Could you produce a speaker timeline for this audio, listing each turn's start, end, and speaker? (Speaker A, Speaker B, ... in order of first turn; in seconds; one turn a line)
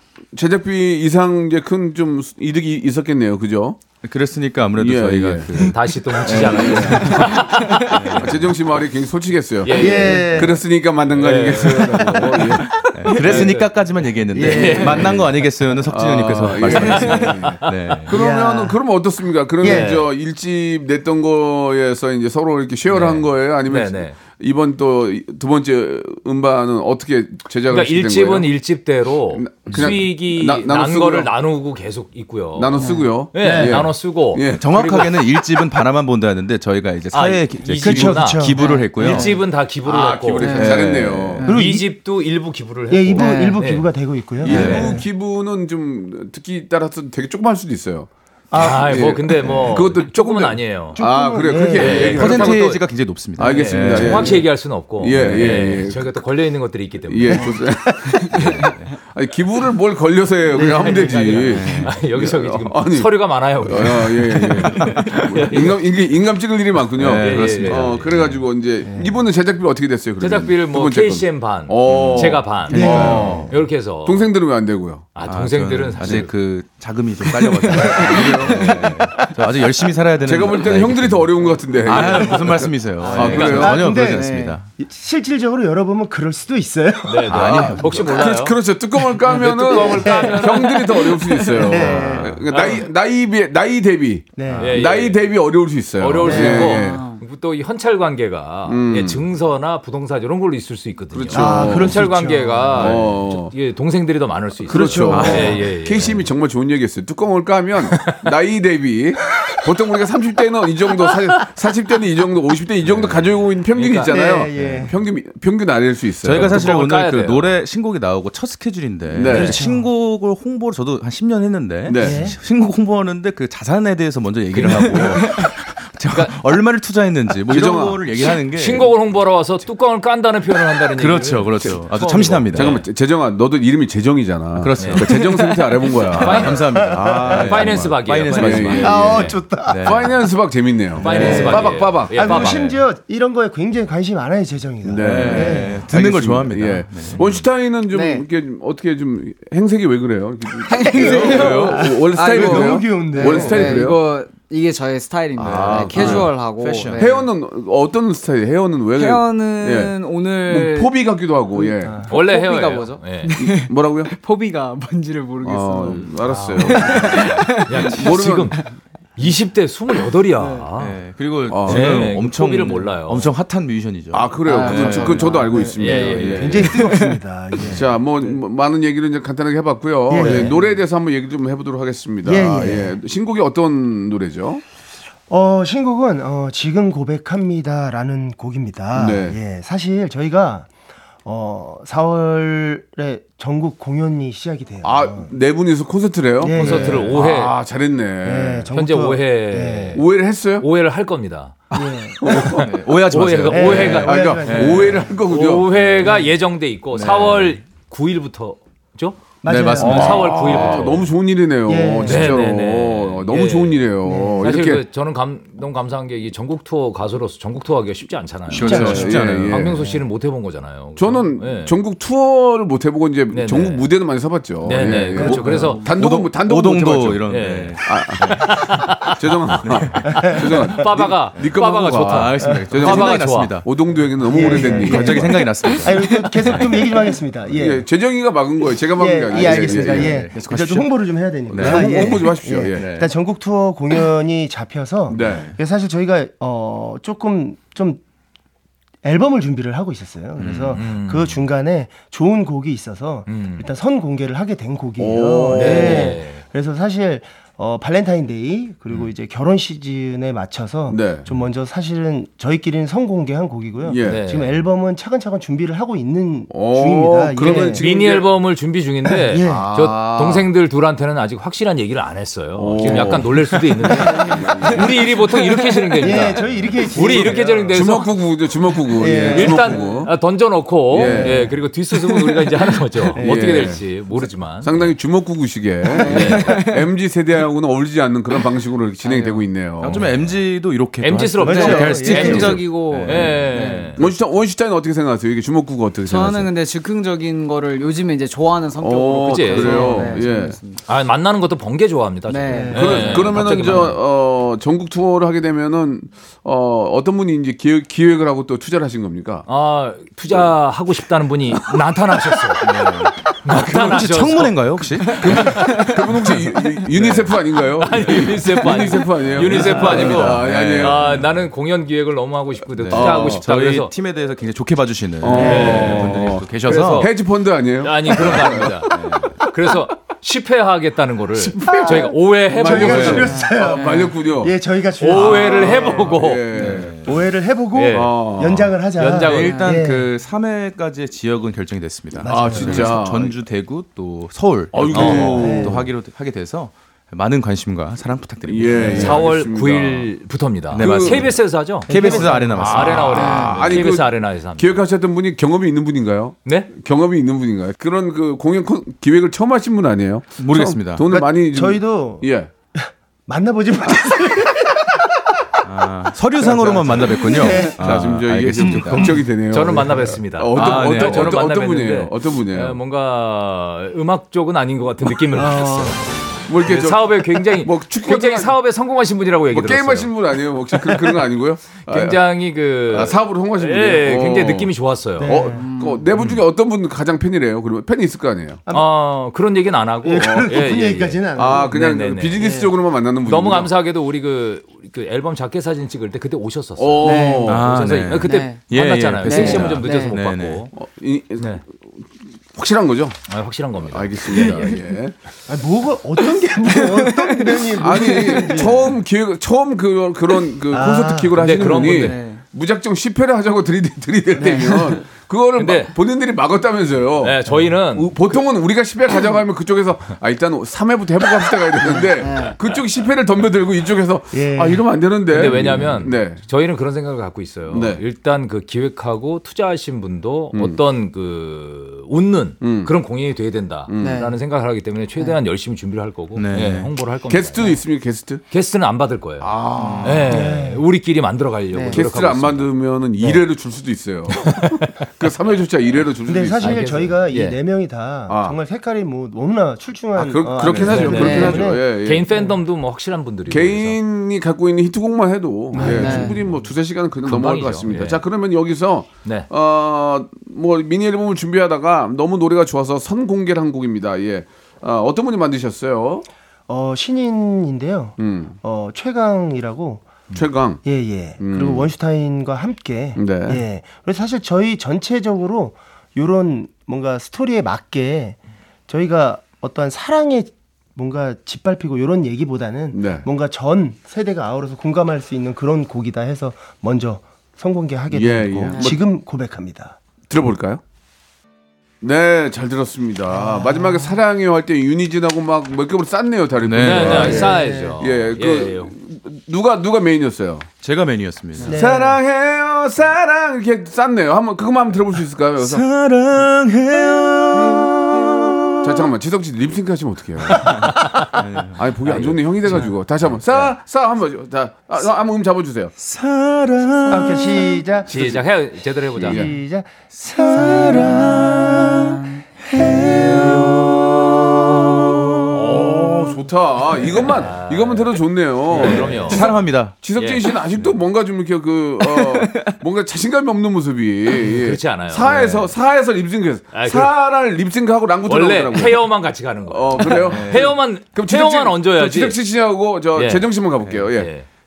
Speaker A: 0.3-3.8
Speaker B: 4.0-8.6
Speaker A: 4.8-5.7
Speaker C: 5.7-8.3
Speaker A: 6.2-7.3
Speaker A: 8.2-13.4
Speaker C: 9.6-10.6
Speaker D: 9.7-10.6
Speaker C: 11.1-12.4
Speaker B: 12.8-18.1
Speaker C: 13.1-13.7
Speaker D: 14.3-15.2
Speaker C: 14.4-15.1
Speaker A: 14.8-15.2
Speaker A: 15.9-28.5
Speaker C: 16.8-17.3
Speaker D: 18.1-18.8
Speaker D: 19.6-20.0
Speaker C: 19.6-20.1
Speaker C: 22.9-24.2
Speaker C: 27.7-35.1
Speaker A: 29.3-31.3
Speaker B: 29.7-30.0
Speaker A: 32.6-35.4
Speaker E: 32.8-33.1
Speaker D: 33.4-33.9
Speaker B: 34.5-39.4
Speaker C: 37.1-40.7
Speaker D: 37.8-39.3
Speaker E: 38.6-39.2
Speaker A: 39.8-41.5
Speaker E: 40.4-40.8
Speaker B: 40.5-41.5
Speaker D: 41.4-41.9
Speaker C: 41.5-43.9
Speaker D: 42.9-45.1
Speaker E: 43.1-43.6
Speaker A: 44.4-52.8
Speaker B: 44.5-45.0
Speaker D: 48.5-49.9
Speaker C: 48.5-51.0
Speaker D: 51.0-52.3
Speaker C: 51.8-52.9
Speaker B: 51.9-54.5
Speaker A: 53.4-56.2
Speaker C: 53.4-57.6
Speaker B: 55.1-55.9
Speaker A: 57.1-75.1
Speaker D: 57.3-58.4
Speaker B: 58.4-58.8
Speaker D: 60.5-61.5
Speaker C: 60.5-65.8
Speaker B: 61.5-61.9
Speaker B: 64.5-65.2
Speaker B: 67.0-68.4
Speaker C: 67.1-68.1
Speaker D: 68.8-69.1
Speaker C: 70.2-74.3
Speaker B: 71.9-73.5
Speaker D: 72.7-73.6
Speaker C: 75.2-76.3
Speaker B: 75.2-84.7
Speaker A: 76.0-76.3
Speaker E: 77.5-79.3
Speaker A: 78.0-78.9
Speaker A: 80.2-83.9
Speaker E: 83.0-84.6
Speaker D: 83.1-87.8
Speaker C: 83.2-83.7
Speaker C: 87.0-88.6
Speaker B: 87.3-88.0
Speaker A: 87.8-97.0
Speaker D: 89.1-92.4
Speaker C: 89.3-90.9
Speaker B: 91.7-92.5
Speaker C: 92.5-92.8
Speaker D: 94.4-94.8
Speaker B: 94.5-94.8
Speaker C: 94.6-95.2
Speaker C: 96.0-106.3
Speaker D: 96.2-96.9
Speaker E: 96.3-97.2
Speaker A: 98.7-99.2
Speaker A: 101.1-102.0
Speaker D: 101.3-103.1
Speaker A: 102.8-103.5
Speaker D: 104.7-105.7
Speaker A: 104.7-116.7
Speaker B: 105.1-105.6
Speaker C: 108.0-108.2
Speaker B: 112.9-113.2
Speaker C: 113.7-114.1
Speaker D: 114.1-114.9
Speaker B: 114.5-114.9
Speaker B: 116.2-128.9
Speaker C: 116.3-117.6
Speaker A: 119.1-119.6
Speaker D: 119.3-119.9
Speaker A: 121.9-122.3
Speaker D: 122.0-122.4
Speaker C: 124.5-125.4
Speaker C: 126.1-126.4
Speaker A: 127.5-128.1
Speaker C: 128.2-132.9
Speaker B: 130.9-132.8
Speaker A: 132.5-136.6
Speaker B: 134.6-140.2
Speaker C: 134.8-135.0
Speaker C: 136.2-136.6
Speaker D: 136.2-137.8
Speaker A: 137.3-139.2
Speaker C: 137.3-139.4
Speaker D: 138.8-140.1
Speaker A: 139.8-142.2
Speaker C: 141.0-142.8
Speaker B: 141.0-142.8
Speaker D: 141.0-145.9
Speaker A: 144.8-154.0
Speaker B: 145.0-147.2
Speaker E: 147.9-148.2
Speaker E: 150.7-157.3
Speaker D: 150.9-153.8
Speaker B: 155.4-157.1
Speaker A: 155.4-156.3
Speaker A: 156.9-162.1
Speaker E: 158.9-160.9
Speaker E: 161.6-168.6
Speaker C: 162.1-163.4
Speaker A: 163.4-164.1
Speaker A: 165.4-168.7
Speaker C: 166.2-171.0
Speaker E: 170.4-170.7
Speaker B: 170.8-176.7
Speaker A: 171.5-172.1
Speaker C: 171.6-173.3
Speaker A: 174.1-176.8
Speaker E: 174.4-177.2
Speaker C: 175.8-176.5
Speaker D: 176.3-178.0
Speaker A: 177.7-184.6
Speaker D: 180.1-180.5
Speaker D: 182.2-183.0
Speaker D: 185.3-190.7
Speaker A: 188.9-189.4
Speaker D: 191.2-195.3
Speaker A: 194.8-198.7
Speaker D: 196.4-197.2
Speaker C: 196.6-197.6
Speaker D: 198.2-200.0
Speaker C: 198.7-200.1
Speaker A: 199.9-200.7
Speaker C: 200.6-201.6
Speaker D: 201.7-202.6
Speaker A: 201.8-202.8
Speaker B: 202.4-205.1
Speaker C: 202.9-211.1
Speaker D: 203.5-205.1
Speaker A: 203.6-205.7
Speaker B: 207.0-207.5
Speaker D: 209.4-210.6
Speaker A: 209.5-214.8
Speaker D: 211.7-212.5
Speaker C: 212.1-213.9
Speaker D: 214.0-214.6
Speaker C: 214.4-221.7
Speaker B: 218.5-219.7
Speaker A: 218.5-219.8
Speaker D: 218.6-219.2
Speaker D: 219.8-220.0
Speaker A: 221.0-227.3
Speaker C: 223.3-223.9
Speaker C: 224.7-225.8
Speaker B: 225.1-228.8
Speaker C: 227.3-229.6
Speaker A: 227.8-228.6
Speaker A: 229.2-235.5
Speaker B: 229.6-230.4
Speaker D: 230.1-230.9
Speaker C: 230.2-233.6
Speaker B: 231.4-233.7
Speaker D: 234.2-237.9
Speaker B: 234.3-236.9
Speaker A: 237.5-240.3
Speaker D: 239.0-248.0
Speaker B: 239.4-240.9
Speaker B: 241.5-243.1
Speaker A: 241.5-242.9
Speaker A: 245.1-245.5
Speaker B: 245.1-245.6
Speaker D: 249.0-267.8
Speaker B: 250.4-250.8
Speaker C: 250.7-251.4
Speaker C: 253.3-253.7
Speaker A: 255.0-256.2
Speaker C: 255.5-256.4
Speaker A: 260.9-261.3
Speaker A: 263.9-264.2
Speaker C: 264.0-264.6
Speaker A: 266.5-268.3
Speaker C: 267.5-278.1
Speaker D: 269.1-269.7
Speaker A: 269.4-270.5
Speaker A: 272.6-275.0
Speaker D: 272.8-274.2
Speaker E: 274.1-274.8
Speaker E: 275.6-275.9
Speaker D: 276.0-277.8
Speaker E: 277.3-277.6
Speaker A: 277.7-280.1
Speaker D: 278.9-279.9
Speaker C: 279.3-284.9
Speaker A: 280.9-281.5
Speaker D: 280.9-281.6
Speaker D: 283.1-283.7
Speaker A: 283.2-284.0
Speaker A: 284.6-290.1
Speaker E: 285.9-286.9
Speaker C: 286.0-286.7
Speaker E: 289.0-289.5
Speaker B: 289.8-293.6
Speaker C: 291.0-294.1
Speaker D: 291.4-292.7
Speaker E: 291.5-294.0
Speaker A: 294.0-296.5
Speaker E: 296.1-300.8
Speaker A: 298.8-300.6
Speaker C: 299.3-300.2
Speaker C: 300.9-304.0
Speaker E: 302.3-303.2
Speaker D: 302.5-303.2
Speaker A: 302.7-309.4
Speaker C: 309.5-315.9
Speaker B: 312.6-315.6
Speaker A: 315.2-321.2
Speaker C: 317.0-317.3
Speaker B: 317.0-317.3
Speaker C: 317.8-323.9
Speaker B: 319.3-321.4
Speaker B: 322.7-327.1
Speaker A: 322.9-323.4
Speaker A: 325.2-328.7
Speaker C: 325.3-327.1
Speaker D: 325.4-326.0
Speaker C: 327.8-333.3
Speaker B: 328.9-329.4
Speaker A: 331.4-334.5
Speaker D: 331.6-340.1
Speaker B: 332.8-333.2
Speaker E: 333.1-334.1
Speaker C: 335.0-336.4
Speaker A: 335.1-337.2
Speaker B: 336.5-337.1
Speaker C: 337.7-338.1
Speaker A: 337.9-338.8
Speaker C: 339.0-339.6
Speaker B: 339.1-349.2
Speaker E: 339.4-339.7
Speaker D: 342.2-343.0
Speaker A: 342.2-343.4
Speaker A: 344.7-345.8
Speaker C: 344.9-345.5
Speaker D: 345.0-345.9
Speaker A: 348.5-350.1
Speaker D: 348.8-349.2
Speaker C: 348.9-354.8
Speaker B: 350.7-353.8
Speaker A: 350.8-351.3
Speaker D: 351.9-353.1
Speaker A: 352.6-362.5
Speaker E: 353.1-353.7
Speaker B: 360.4-361.1
Speaker D: 361.1-365.0
Speaker B: 365.6-369.2
Speaker D: 366.4-368.1
Speaker A: 366.5-372.8
Speaker D: 368.6-369.2
Speaker C: 369.5-376.0
Speaker D: 369.8-370.0
Speaker B: 370.5-371.4
Speaker D: 375.3-376.0
Speaker A: 376.5-378.6
Speaker C: 376.6-380.1
Speaker A: 379.5-382.2
Speaker C: 381.8-385.5
Speaker A: 382.9-384.7
Speaker D: 385.2-385.7
Speaker A: 385.2-388.6
Speaker E: 385.6-386.1
Speaker D: 388.7-388.9
Speaker C: 388.7-392.4
Speaker D: 390.0-391.8
Speaker A: 390.2-390.8
Speaker A: 391.4-393.7
Speaker D: 392.4-392.7
Speaker C: 393.2-400.7
Speaker A: 396.8-397.7
Speaker E: 397.0-397.6
Speaker B: 397.5-400.6
Speaker E: 398.2-398.7
Speaker E: 399.2-400.1
Speaker A: 400.8-401.6
Speaker A: 402.6-403.2
Speaker C: 403.3-404.8
Speaker A: 403.9-405.1
Speaker D: 405.5-409.0
Speaker E: 406.6-408.6
Speaker A: 407.8-426.4
Speaker D: 410.7-411.6
Speaker C: 411.4-412.2
Speaker E: 411.8-412.4
Speaker D: 414.4-414.8
Speaker E: 414.4-414.8
Speaker C: 415.6-415.9
Speaker C: 417.2-418.4
Speaker E: 421.8-422.6
Speaker D: 424.3-424.9
Speaker C: 425.3-437.8
Speaker A: 427.7-428.0
Speaker A: 430.5-430.8
Speaker A: 432.6-432.9
Speaker A: 433.9-434.2
Speaker E: 434.0-434.4
Speaker B: 436.4-436.9
Speaker A: 437.3-438.4
Speaker C: 438.5-439.5
Speaker A: 439.4-440.4
Speaker E: 439.8-440.1
Speaker C: 440.0-442.7
Speaker D: 440.2-440.9
Speaker E: 441.7-442.0
Speaker A: 441.9-447.0
Speaker C: 444.4-444.8
Speaker D: 446.3-452.4
Speaker C: 446.6-447.6
Speaker A: 448.3-448.6
Speaker A: 450.1-452.5
Speaker C: 450.8-454.0
Speaker A: 453.5-466.3
Speaker D: 455.7-456.4
Speaker E: 455.8-456.4
Speaker C: 457.2-458.2
Speaker D: 466.7-470.1
Speaker A: 468.2-468.6
Speaker A: 470.3-470.9
Speaker D: 470.8-490.0
Speaker A: 471.4-471.9
Speaker A: 473.2-473.6
Speaker A: 482.9-483.3
Speaker A: 488.1-489.0
Speaker E: 488.7-489.0
Speaker A: 490.3-490.8
Speaker A: 492.0-500.7
Speaker D: 493.3-494.2
Speaker B: 496.6-497.5
Speaker C: 496.8-498.9
Speaker D: 497.1-498.0
Speaker B: 500.8-501.8
Speaker D: 501.6-502.2
Speaker A: 501.6-505.9
Speaker B: 505.6-509.1
Speaker A: 508.8-510.9
Speaker B: 510.5-511.8
Speaker C: 510.7-511.4
Speaker A: 511.8-515.9
Speaker C: 512.0-513.0
Speaker B: 516.0-517.8
Speaker D: 517.1-518.3
Speaker A: 518.1-518.4
Speaker C: 518.1-519.5
Speaker A: 519.2-519.5
Speaker D: 519.2-521.8
Speaker B: 520.1-526.2
Speaker A: 525.5-539.1
Speaker C: 525.5-526.0
Speaker C: 527.2-528.1
Speaker C: 528.7-529.5
Speaker B: 528.7-530.0
Speaker C: 530.1-530.5
Speaker C: 534.4-535.7
Speaker C: 536.7-537.1
Speaker C: 538.3-542.4
Speaker A: 539.7-544.3
Speaker B: 540.2-540.8
Speaker C: 543.2-543.5
Speaker C: 544.1-544.5